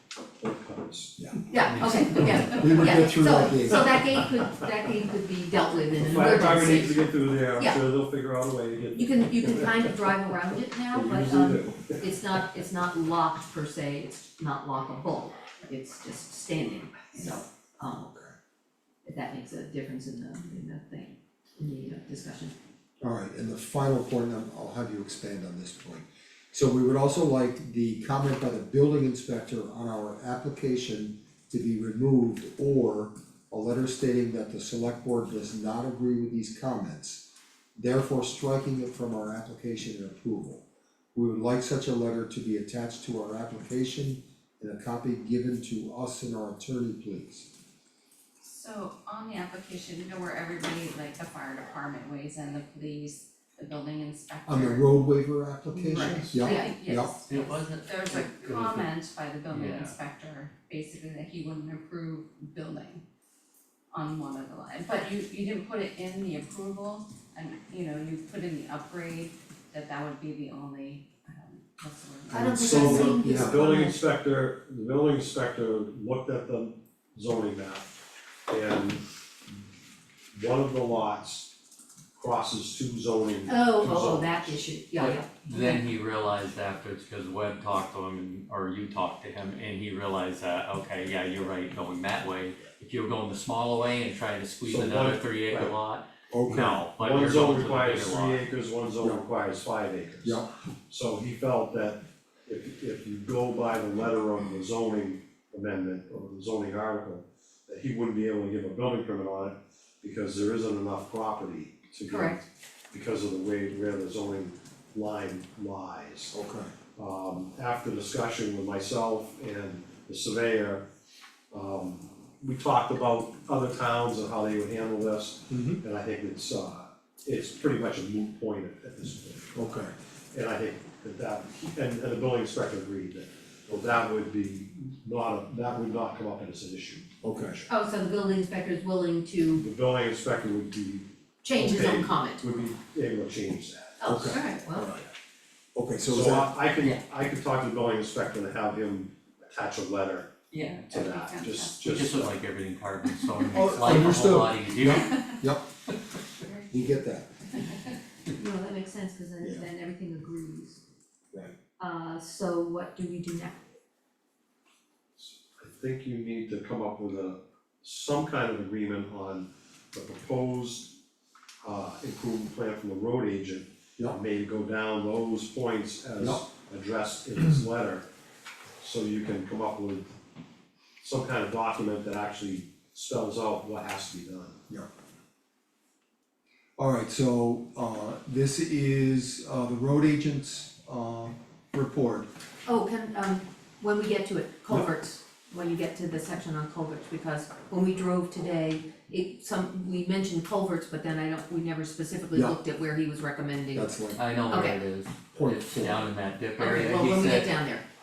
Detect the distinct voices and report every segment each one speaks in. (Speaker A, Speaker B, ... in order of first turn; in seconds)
Speaker A: 0.4-1.1, 6.0-10.0, 10.9-12.1, 55.9-56.4, 72.5-77.9, 78.5-79.0, 80.3-81.5, 82.2-84.6, 94.6-95.7, 96.5-116.3, 117.0-120.8, 121.5-129.5, 130.3-137.4, 139.6-144.0, 146.0-150.3, 150.9-152.4, 165.2-170.9, 171.6-178.1, 178.8-180.1, 181.0-184.6
Speaker B: 1.5-7.8, 8.9-18.1, 19.1-22.5, 55.9-56.7, 72.3-74.0, 83.5-85.8, 112.1-112.4, 137.7-139.6, 141.4-142.4, 144.0-145.0, 158.3-160.8, 161.8-163.6, 192.7-203.9, 204.5-204.8, 206.6-207.8
Speaker C: 1.6-2.8, 57.3-58.9, 59.5-60.0, 85.0-98.5, 151.8-155.2, 204.2-207.6
Speaker D: 2.1-4.2, 18.1-18.3, 23.0-37.2, 37.8-40.6, 41.1-47.5, 54.5-57.1, 72.4-73.7, 96.3-96.8, 100.2-100.5, 116.3-116.7, 125.5-125.8, 129.5-129.9, 137.2-137.6, 144.1-145.0, 145.7-146.5, 153.5-155.7, 156.7-157.3, 159.4-159.7, 186.8-192.3, 202.3-202.6, 203.7-204.2, 205.3-206.1
Speaker E: 48.4-55.1, 55.9-63.0, 63.9-72.5, 150.5-151.8, 153.1-153.5, 155.0-155.4, 156.4-157.9